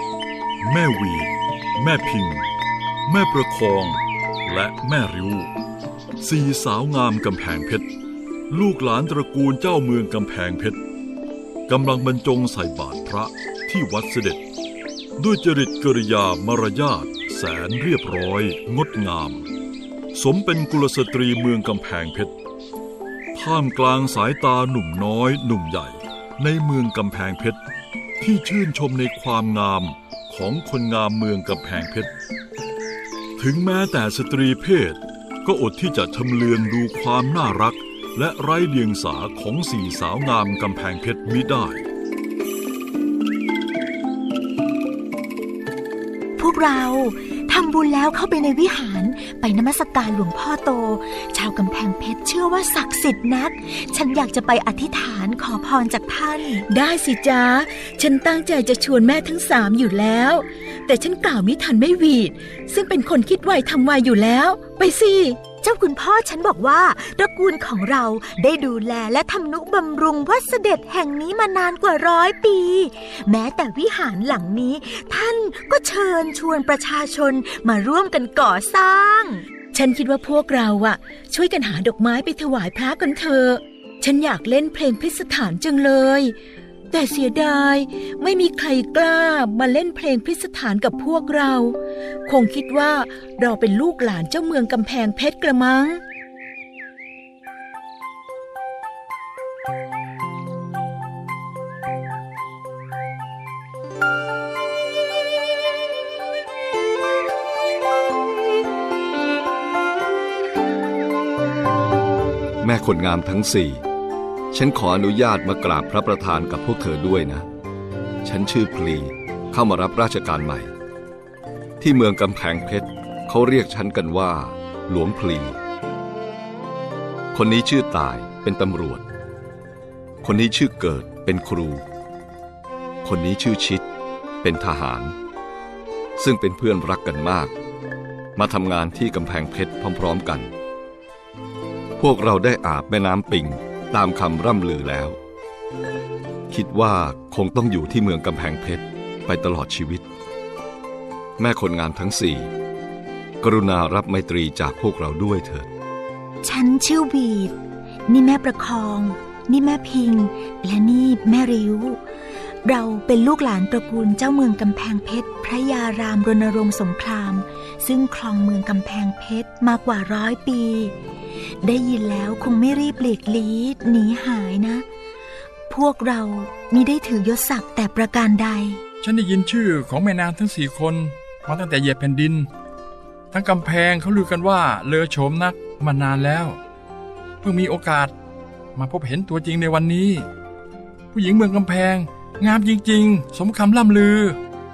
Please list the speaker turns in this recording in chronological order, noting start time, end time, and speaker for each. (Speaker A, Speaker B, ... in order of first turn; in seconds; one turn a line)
Speaker A: 0.6-2.5
Speaker A: 3.0-5.5
Speaker A: 6.2-7.8
Speaker A: 8.5-10.8
Speaker A: 11.7-14.4
Speaker A: 15.2-19.5
Speaker A: 20.1-22.3
Speaker A: 23.3-27.6
Speaker A: 28.2-32.1
Speaker A: 33.4-41.8
Speaker B: 46.4-56.6
Speaker C: 56.7-65.4
Speaker B: 65.6-79.5
Speaker C: 79.7-86.3
Speaker C: 86.9-96.0
Speaker D: 112.6-113.8
Speaker D: 114.5-117.5
Speaker D: 118.2-120.7
Speaker D: 121.8-125.6
Speaker D: 127.3-129.0
Speaker D: 130.2-131.8
Speaker D: 133.0-133.8
Speaker D: 134.4-135.1
Speaker D: 136.2-137.5
Speaker D: 138.3-140.5
Speaker D: 142.0-145.2
Speaker D: 146.5-150.0
Speaker D: 151.4-152.5
Speaker D: 153.4-155.7
Speaker B: 156.4-157.5
Speaker B: 158.1-162.0
Speaker B: 162.6-170.9
Speaker B: 171.6-174.8
Speaker B: 175.7-178.8
Speaker E: 179.0-182.5
Speaker E: 183.3-186.6
Speaker E: 187.4-188.1
Speaker E: 188.7-190.3
Speaker E: 191.1-194.4